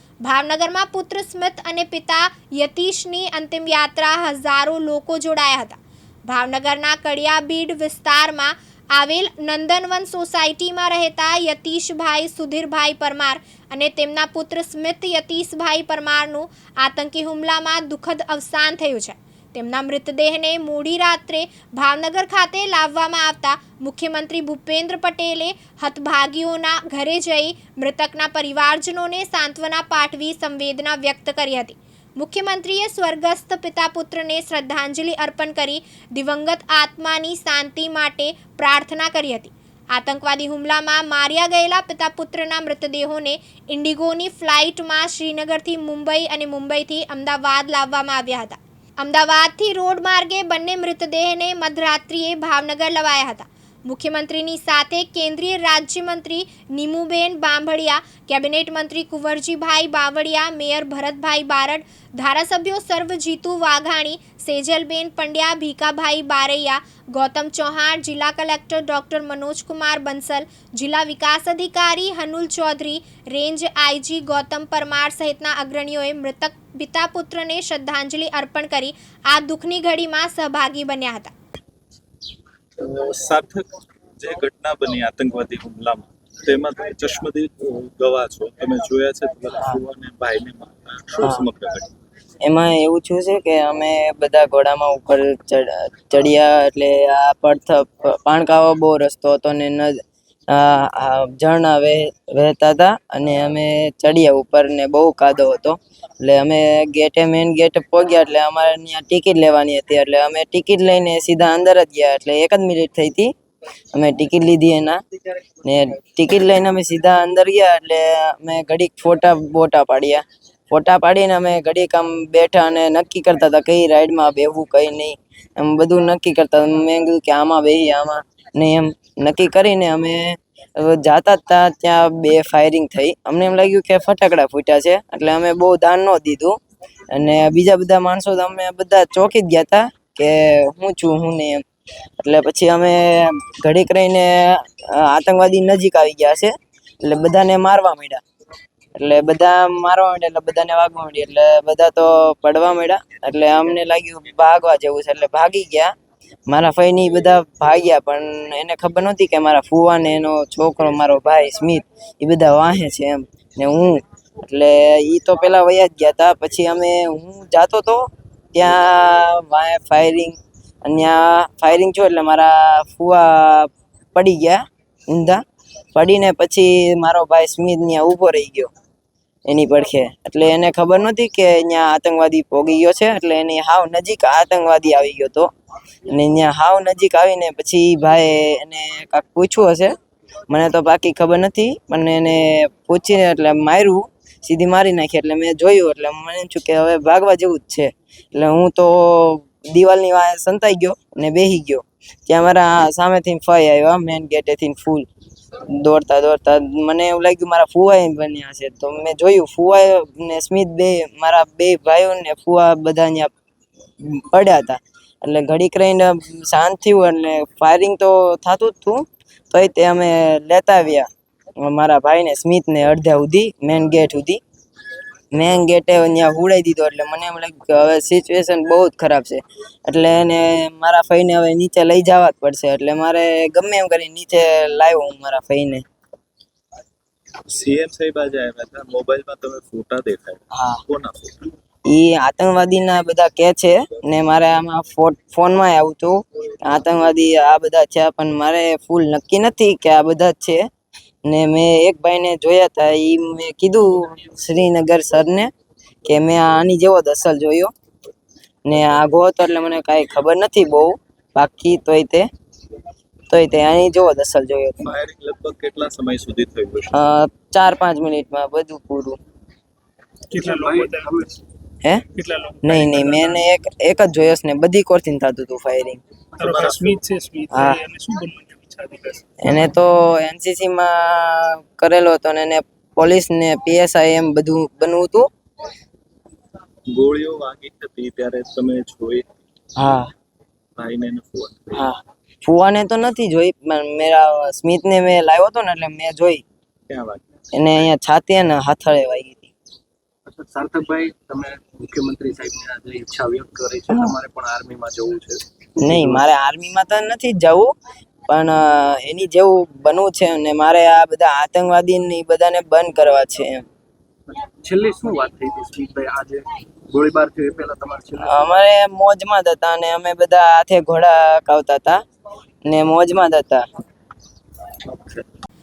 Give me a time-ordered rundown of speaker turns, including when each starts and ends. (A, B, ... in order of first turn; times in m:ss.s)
0:00.2-1:21.3 A
1:22.8-1:23.6 B
1:24.2-1:31.9 B
1:32.4-1:53.3 C
1:53.9-1:55.0 C
1:55.6-2:16.6 C
2:17.1-2:21.6 C
2:22.2-2:28.2 C
2:28.9-2:35.9 C
2:36.5-2:55.4 C
2:55.9-2:58.7 C
2:59.5-3:05.5 C
3:06.1-3:09.9 C
3:10.5-3:25.1 C
3:25.8-3:33.3 C
3:34.0-3:41.1 C
3:41.6-3:44.4 C
3:45.3-3:55.8 C
3:57.5-4:01.5 B
4:00.5-4:00.8 C
4:01.9-4:10.6 C
4:11.3-4:15.5 C
4:16.0-4:17.7 C
4:18.6-4:22.3 C
4:23.3-4:24.9 C
4:24.8-4:27.0 B
4:26.9-4:29.2 C
4:30.3-4:31.4 D
4:30.4-4:31.4 E
4:32.1-4:33.4 D
4:32.6-4:36.0 C
4:36.4-4:39.2 D
4:36.4-4:36.9 B
4:37.5-4:37.8 C
4:39.4-4:45.3 C
4:46.9-4:49.3 B
4:49.8-4:50.1 C
4:50.8-4:51.9 B
4:51.7-4:56.4 C
4:56.9-4:57.2 B
4:57.5-4:59.5 C
5:00.2-5:06.2 E
5:05.8-5:07.7 C
5:08.3-5:13.6 C
5:14.4-5:18.4 E
5:18.2-5:22.0 C
5:22.7-5:23.6 C
5:24.9-5:25.2 E